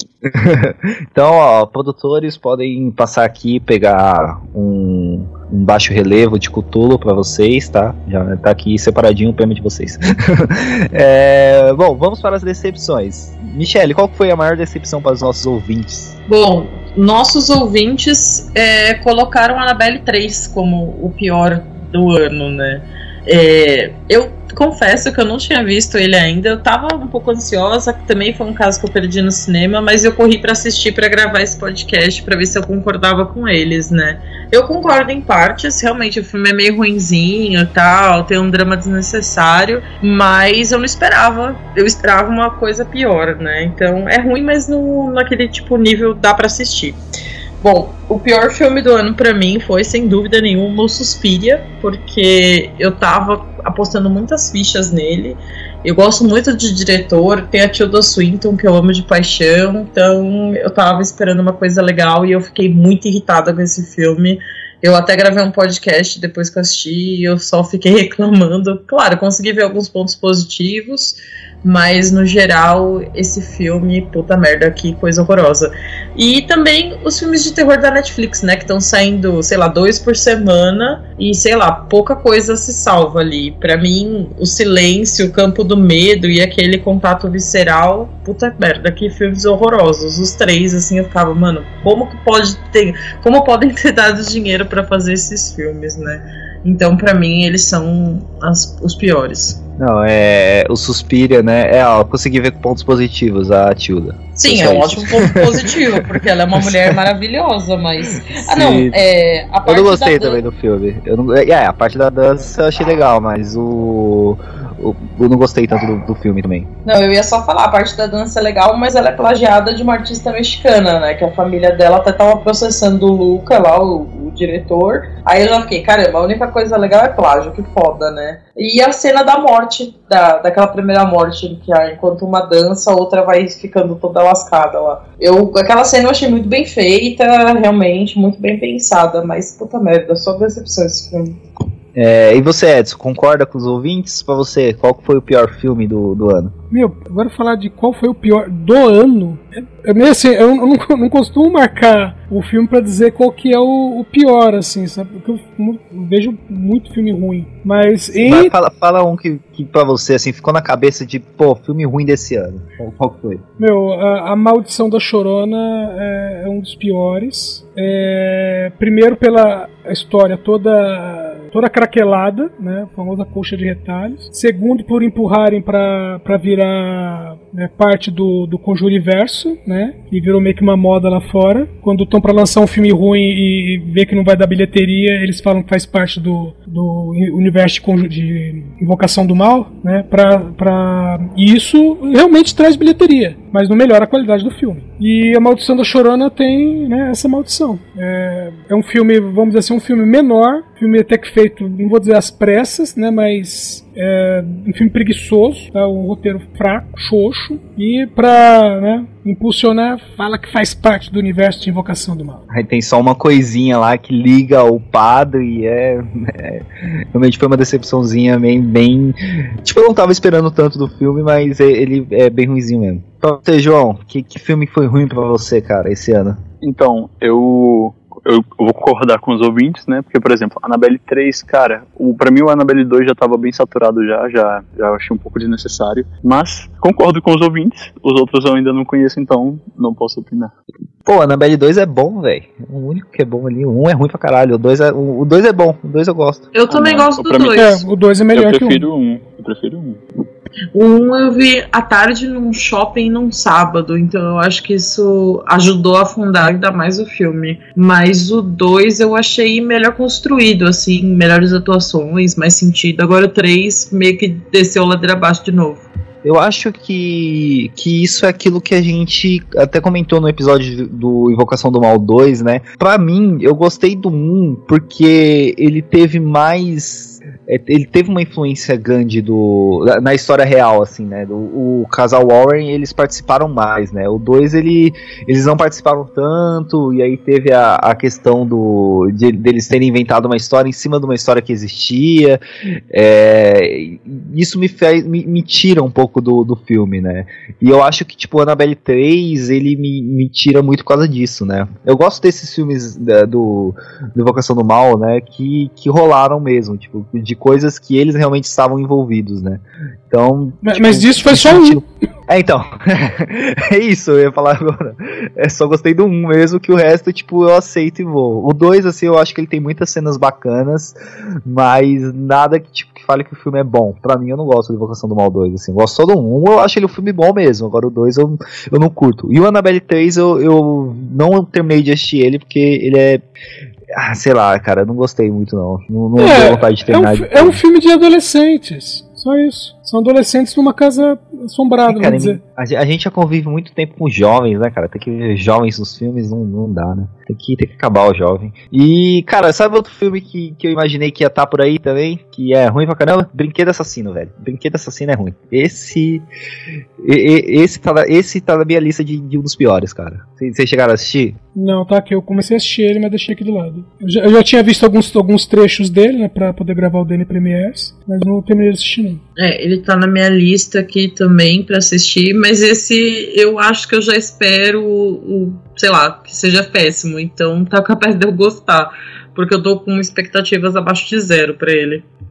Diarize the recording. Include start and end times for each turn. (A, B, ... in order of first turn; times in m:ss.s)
0:00.2-0:16.2 A
0:16.3-0:47.0 B
0:47.6-1:39.6 B
1:39.8-1:47.0 A
1:44.4-1:50.4 B
1:48.3-1:49.0 A
1:49.6-1:56.7 A
1:56.8-2:21.4 B
2:22.0-2:26.5 A
2:26.7-2:38.5 C
2:38.2-2:43.4 A
2:43.6-3:32.4 C
3:32.5-3:46.4 A
3:46.6-4:00.5 D
4:01.0-4:06.5 A
4:06.5-4:07.8 B
4:06.7-4:07.6 D
4:07.5-4:08.9 C
4:08.4-4:10.0 D
4:10.7-4:25.9 B
4:26.2-5:33.2 A
5:10.6-5:11.8 C
5:33.9-5:37.6 A
5:36.2-5:42.4 C
5:41.9-5:56.3 A
5:57.0-6:01.4 A
6:01.6-6:09.2 C
6:09.4-6:22.1 B